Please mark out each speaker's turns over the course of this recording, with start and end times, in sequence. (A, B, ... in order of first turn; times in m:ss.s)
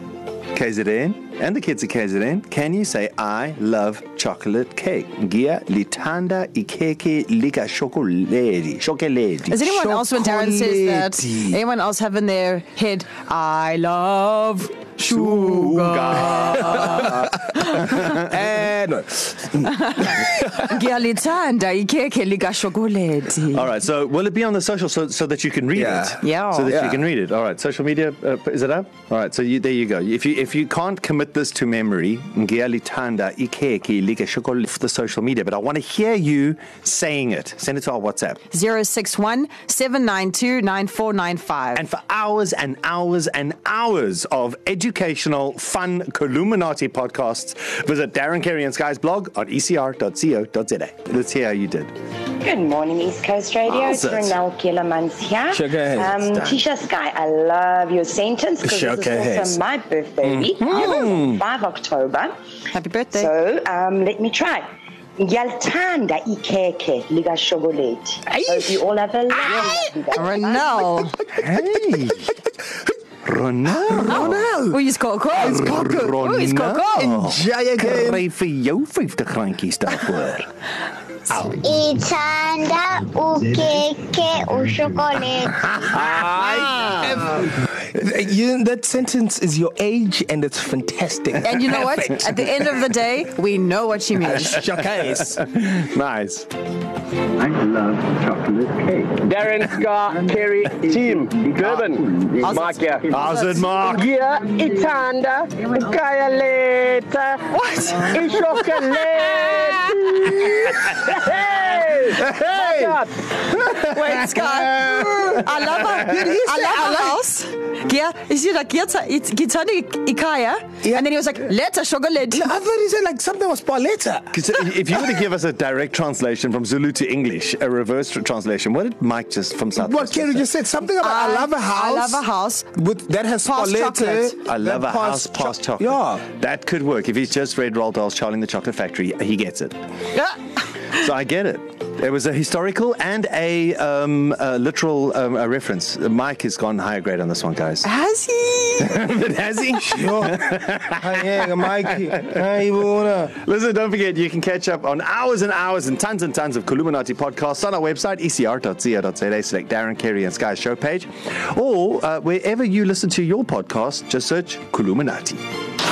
0:00.5-0:09.6 A
0:09.5-0:18.1 B
0:09.6-0:11.6 C
0:15.1-0:18.2 A
0:15.2-0:20.7 C
0:19.6-0:23.7 B
0:23.5-0:38.4 A
0:25.8-0:26.2 C
0:26.2-0:26.7 B
0:26.7-0:27.0 C
0:38.5-0:41.8 B
0:41.7-0:51.9 A
0:52.4-1:02.3 D
0:53.7-0:54.4 A
0:55.5-0:56.2 C
0:56.3-0:56.6 A
0:58.6-0:59.6 C
1:00.2-1:01.4 A
1:02.7-1:03.3 B
1:03.1-1:04.6 D
1:05.2-1:10.8 D
1:08.3-1:08.8 C
1:09.4-1:09.8 C
1:10.2-1:11.2 B
1:11.3-1:12.3 A
1:13.2-1:14.5 A
1:13.9-1:14.8 C
1:14.0-1:15.6 B
1:15.4-1:16.2 C
1:15.4-1:20.5 A
1:16.2-1:17.1 B
1:17.0-1:18.2 C
1:21.4-1:25.6 E
1:25.9-1:32.3 C
1:26.0-1:27.3 A
1:31.4-1:34.7 B
1:34.2-1:35.4 C
1:35.0-1:36.5 A
1:37.5-1:39.1 A
1:39.2-1:43.1 F
1:41.6-1:41.9 A
1:42.4-1:43.7 B
1:43.1-1:44.1 A
1:43.8-1:47.4 F
1:47.5-1:49.6 B
1:48.1-1:50.3 F
1:50.4-1:50.9 C
1:51.0-1:53.1 F
1:51.6-1:53.0 C
1:53.6-2:02.5 B
1:54.2-1:55.4 C
1:56.0-1:57.2 C
2:02.3-2:04.4 C
2:04.3-2:10.5 A
2:09.8-2:16.2 C
2:11.0-2:12.7 B
2:13.4-2:14.4 B
2:14.4-2:19.8 A
2:20.9-2:27.9 A
2:27.8-2:28.9 B
2:28.8-2:32.0 A
2:29.9-2:33.3 C
2:33.3-2:45.4 A